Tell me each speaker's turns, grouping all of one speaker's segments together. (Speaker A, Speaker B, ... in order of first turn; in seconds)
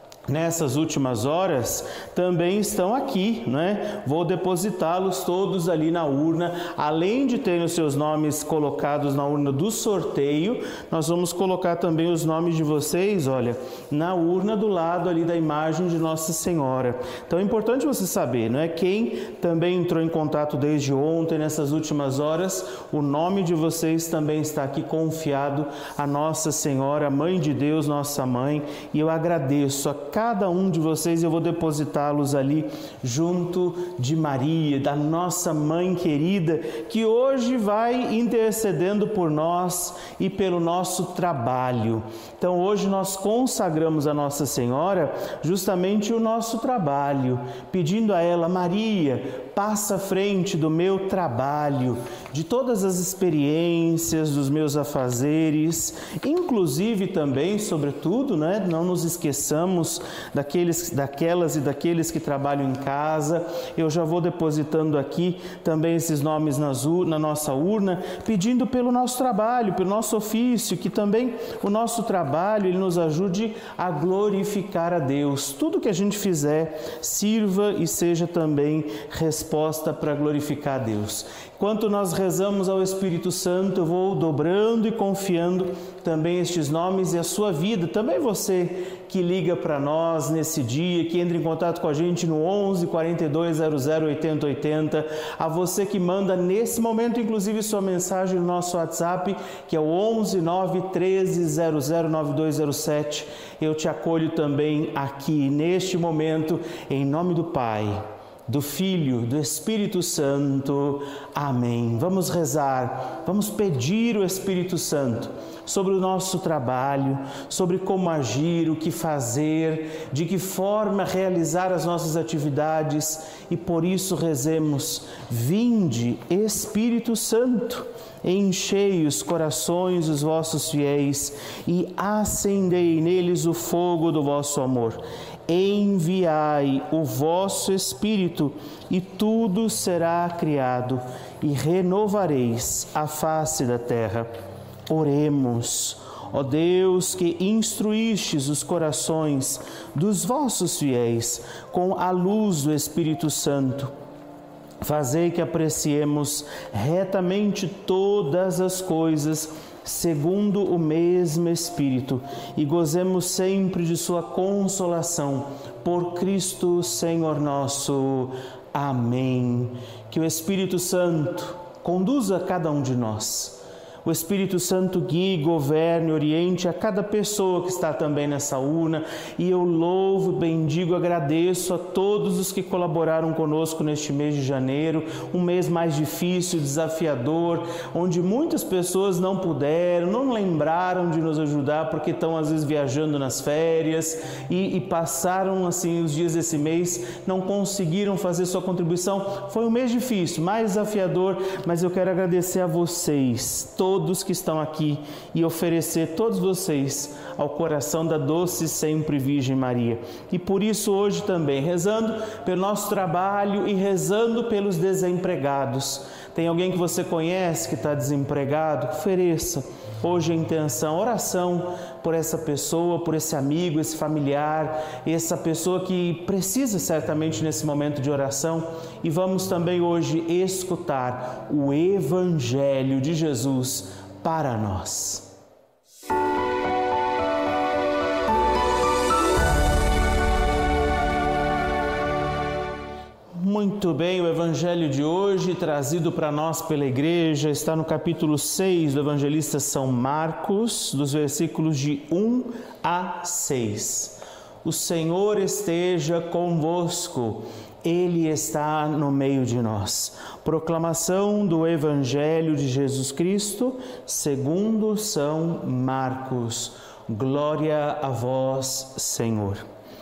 Speaker A: 0.3-144.3, 144.9-153.9, 154.8-235.3, 243.3-269.7